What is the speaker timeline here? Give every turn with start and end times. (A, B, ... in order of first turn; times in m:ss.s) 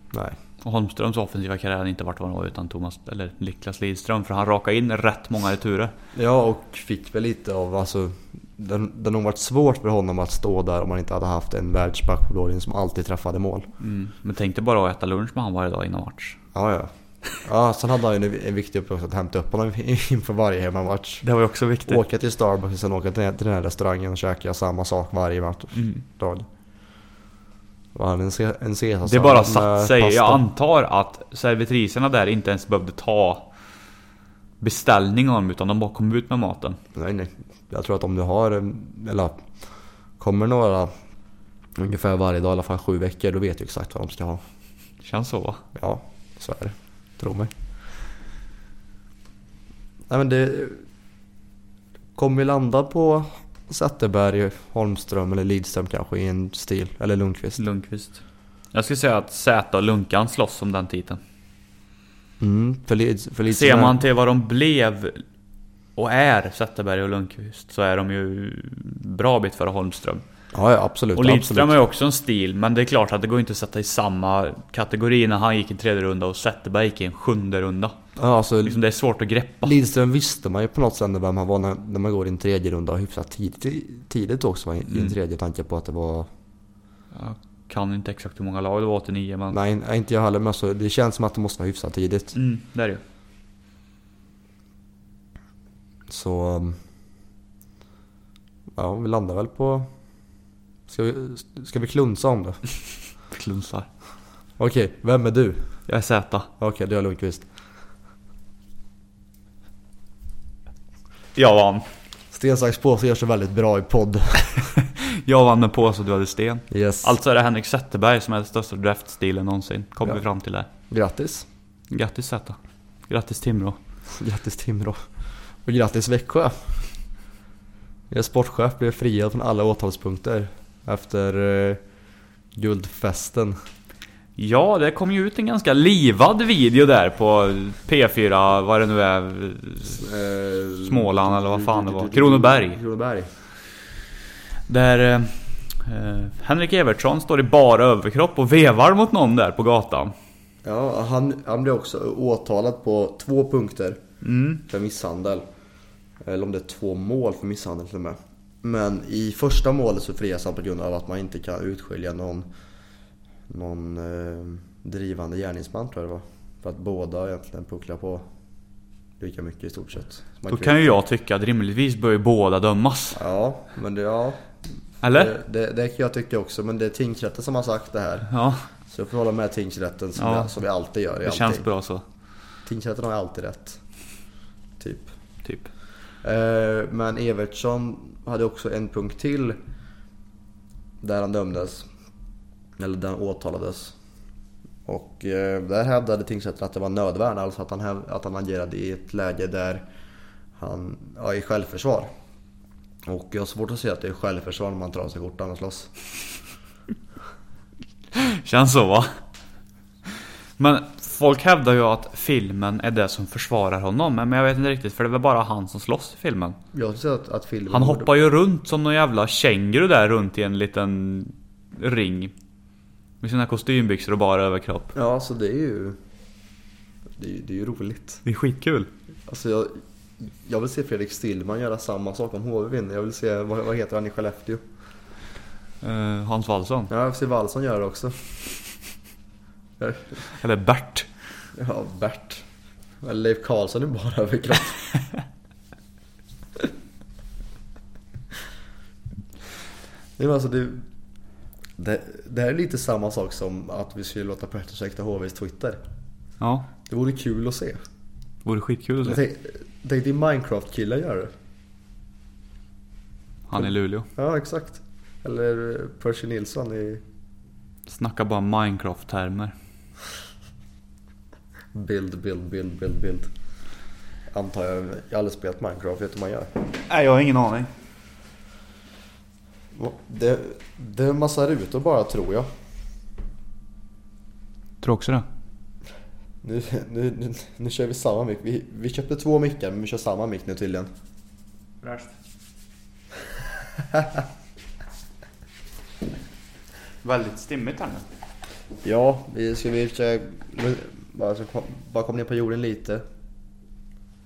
0:00.6-0:05.9 A
0:06.2-0:13.7 B
0:13.8-0:16.4 A
0:16.5-0:21.2 B
0:21.2-0:22.0 A
0:21.9-0:26.5 B
0:25.8-0:26.0 A
0:28.0-0:30.4 B
0:29.0-0:33.5 A
0:34.6-0:36.8 A
0:37.0-0:39.5 B
0:40.2-0:40.9 B
0:41.8-0:44.4 B
0:45.0-0:45.6 A
0:45.8-0:47.5 B
0:50.1-0:50.8 B
0:52.2-0:57.6 B
0:57.6-0:58.2 A
0:58.7-1:01.2 A
1:02.4-1:04.0 B
1:03.5-1:05.2 A
1:06.0-1:10.2 A
1:10.5-1:11.8 B
1:11.2-1:18.0 A
1:18.2-1:18.8 B
1:18.6-1:19.7 A
1:19.6-1:26.3 B
1:27.1-1:29.6 A
1:29.5-1:32.4 B
1:32.3-1:33.0 A
1:36.1-1:36.8 B
1:38.8-1:39.9 B
1:40.9-1:42.6 B
1:43.3-1:43.9 A
1:44.6-1:45.8 B
1:45.9-1:46.5 A
1:46.6-1:47.5 B
1:51.4-1:51.8 A
1:52.3-1:54.7 B
1:54.8-2:00.7 A
1:56.7-1:57.2 B
2:00.9-2:01.5 B
2:01.9-2:03.8 A
2:04.1-2:05.0 B
2:05.6-2:06.9 B
2:08.1-2:11.8 B
2:12.6-2:13.6 B
2:14.4-2:20.0 A
2:19.9-2:23.3 B
2:20.8-2:22.8 A
2:24.7-2:30.1 A
2:30.6-2:34.0 B
2:34.2-2:34.6 A
2:34.7-2:35.5 B
2:36.2-2:42.5 B
2:43.5-2:48.3 B
2:49.2-2:50.9 B
2:50.5-2:53.2 A
2:53.2-2:54.5 B
2:55.0-2:55.4 A
2:55.0-2:58.3 B
2:58.3-2:58.7 A
2:58.9-3:01.7 B
3:00.2-3:00.5 A
3:01.2-3:02.0 A
3:02.6-3:03.8 B
3:04.8-3:05.1 B
3:05.4-3:05.7 A
3:06.2-3:09.6 B
3:11.0-3:11.9 B
3:12.8-3:14.0 B
3:14.9-3:19.8 B
3:20.6-3:22.1 B
3:23.1-3:25.9 B
3:28.2-3:29.1 A
3:30.6-3:36.6 A
3:36.7-3:38.1 B
3:37.7-3:42.3 A
3:43.2-3:44.9 A
3:44.9-3:46.0 B
3:47.2-3:48.2 B
3:48.2-3:48.9 A
3:49.3-3:54.6 B
3:55.8-3:56.9 A
3:56.9-3:58.4 B
3:59.8-4:00.2 B
4:00.3-4:01.1 A
4:01.6-4:02.4 B
4:03.0-4:04.8 B
4:10.2-4:10.8 B
4:11.8-4:15.8 B
4:16.4-4:16.7 A
4:16.9-4:17.8 B
4:18.4-4:19.2 A
4:19.0-4:21.3 B
4:23.5-4:24.1 A
4:24.2-4:27.0 B
4:27.9-4:29.5 A
4:31.7-4:33.3 B
4:34.3-4:36.5 B
4:36.9-4:37.7 A
4:39.7-4:42.5 B
4:44.8-4:45.3 A
4:46.4-4:50.9 B
4:51.8-4:52.1 A
4:57.0-4:58.0 A
4:58.8-5:03.0 B